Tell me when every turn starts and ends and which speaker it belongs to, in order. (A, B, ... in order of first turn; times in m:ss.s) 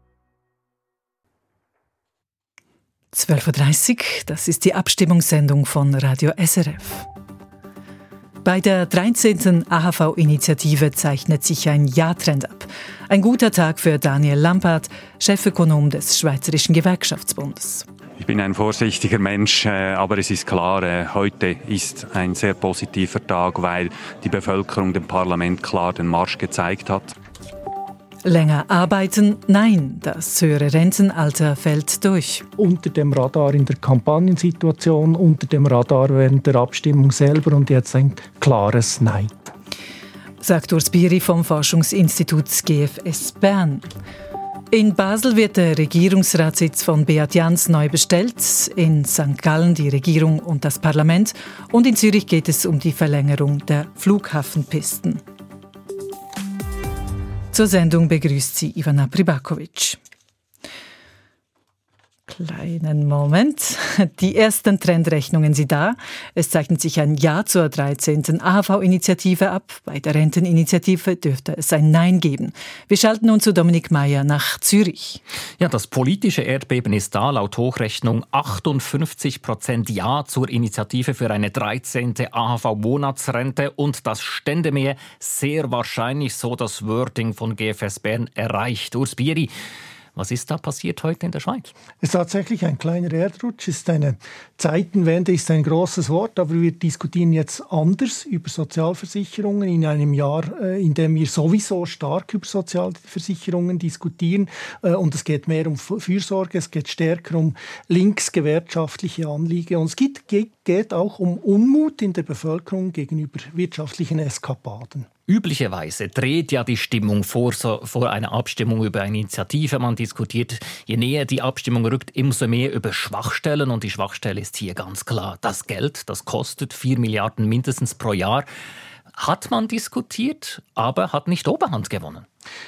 0:03.1-0:07.0 A
0:08.4-0:17.8 A
0:18.2-0:27.1 B
0:28.2-0:32.4 A
0:32.6-0:39.3 C
0:40.4-0:43.8 A
0:44.7-0:55.2 A
0:57.5-1:00.0 A
1:02.3-1:15.2 A
1:15.6-1:29.5 D
1:30.2-1:31.7 D
1:32.0-1:55.1 C
1:55.3-2:08.4 D
2:09.2-2:12.2 D